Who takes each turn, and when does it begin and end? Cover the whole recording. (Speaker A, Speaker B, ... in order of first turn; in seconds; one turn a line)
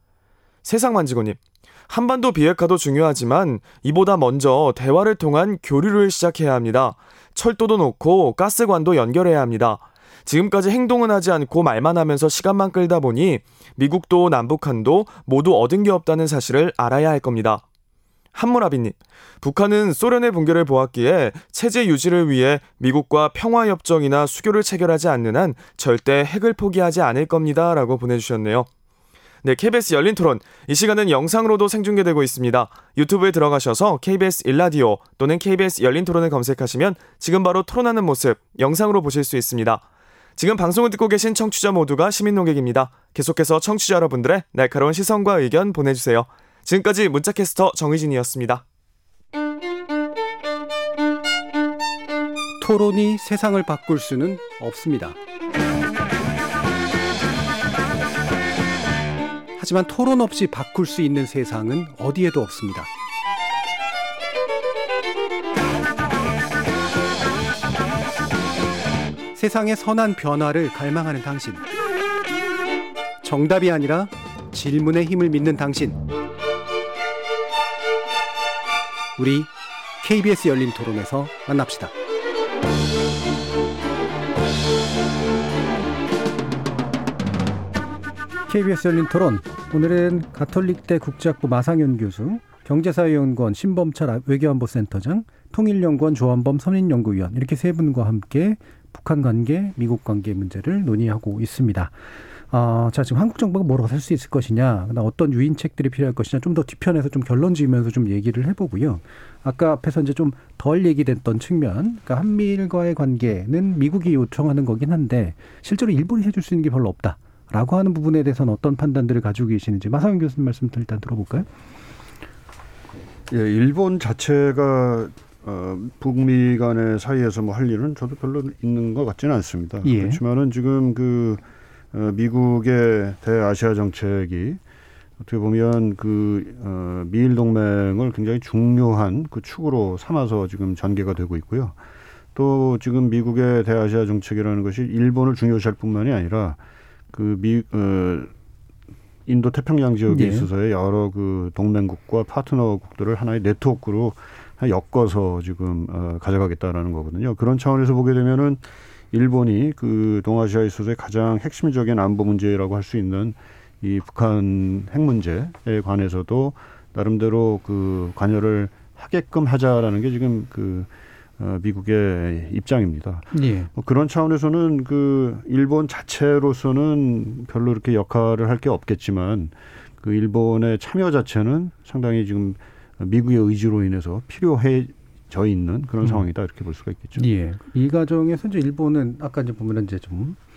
Speaker A: 0.6-17.6
Speaker A: 18.3-28.7
Speaker A: 29.4-39.8
Speaker A: 40.4-48.6
Speaker B: 52.6-55.2
Speaker B: 59.6-62.9
Speaker B: 69.3-71.7
Speaker B: 73.2-76.0
Speaker B: 79.2-81.9
Speaker B: 88.5-121.5
Speaker C: 123.3-131.4
Speaker B: 129.8-130.2
Speaker C: 131.9-134.6
Speaker C: 135.2-141.8
Speaker C: 142.3-146.6
Speaker C: 147.1-148.3
Speaker C: 149.3-170.9
Speaker B: 150.1-150.5
Speaker C: 171.4-187.2
Speaker B: 173.3-173.7
Speaker B: 187.2-190.4